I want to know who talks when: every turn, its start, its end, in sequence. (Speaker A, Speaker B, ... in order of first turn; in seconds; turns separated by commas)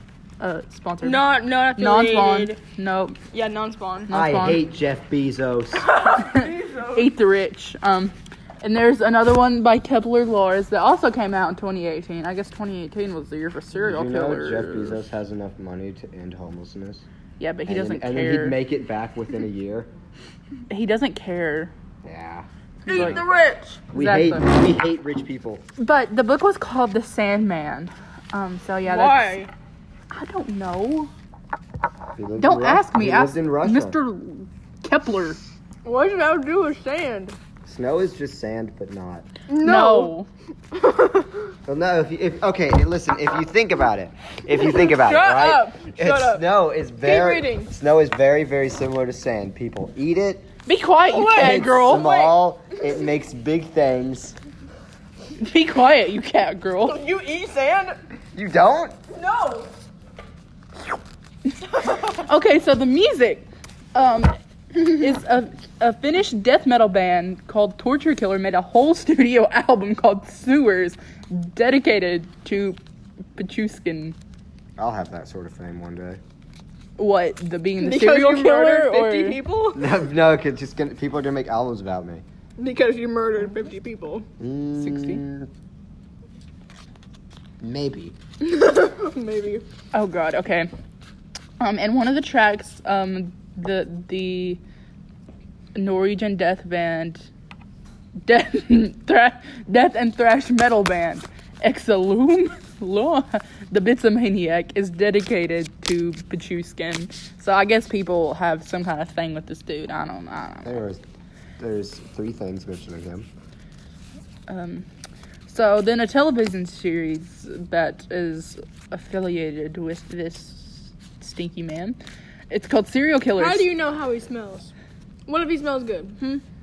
Speaker A: 0.4-3.2, Speaker B: 1.0-2.6, Speaker B: 3.3-4.1, Speaker A: 4.1-4.6, Speaker C: 4.1-5.9, Speaker B: 5.8-7.1, Speaker A: 6.2-15.0, Speaker C: 13.8-17.1, Speaker A: 17.4-18.6, Speaker C: 17.7-19.9, Speaker A: 20.7-21.7, Speaker C: 22.0-23.2, Speaker A: 22.9-23.2, Speaker B: 22.9-23.8, Speaker A: 23.9-24.5, Speaker C: 23.9-25.6, Speaker A: 25.8-29.4, Speaker B: 28.8-29.5, Speaker A: 30.1-31.1, Speaker C: 32.2-34.0, Speaker A: 32.4-35.4, Speaker B: 35.9-37.4, Speaker C: 37.7-39.3, Speaker B: 39.5-40.1, Speaker A: 39.6-40.3, Speaker B: 40.7-41.5, Speaker C: 41.7-50.5, Speaker B: 44.5-46.5, Speaker B: 47.0-47.7, Speaker A: 50.7-52.1, Speaker B: 51.0-52.4, Speaker C: 51.3-54.4, Speaker A: 55.4-57.0, Speaker B: 56.8-58.0, Speaker C: 58.3-59.0, Speaker B: 59.1-59.7, Speaker B: 61.7-62.2, Speaker A: 61.9-72.8, Speaker A: 73.4-74.2, Speaker C: 74.8-76.2, Speaker A: 77.0-79.4, Speaker B: 77.8-79.9, Speaker C: 79.8-82.2, Speaker B: 82.6-84.3, Speaker C: 84.4-85.5, Speaker A: 84.8-85.2, Speaker C: 87.6-88.2, Speaker B: 88.4-89.6, Speaker A: 89.9-90.7, Speaker A: 91.6-94.6, Speaker A: 95.8-97.3, Speaker A: 98.3-110.8, Speaker C: 110.6-111.0, Speaker C: 111.6-113.3, Speaker A: 114.5-114.9, Speaker A: 115.5-122.0, Speaker A: 122.5-123.7, Speaker B: 123.4-124.7, Speaker B: 125.3-126.2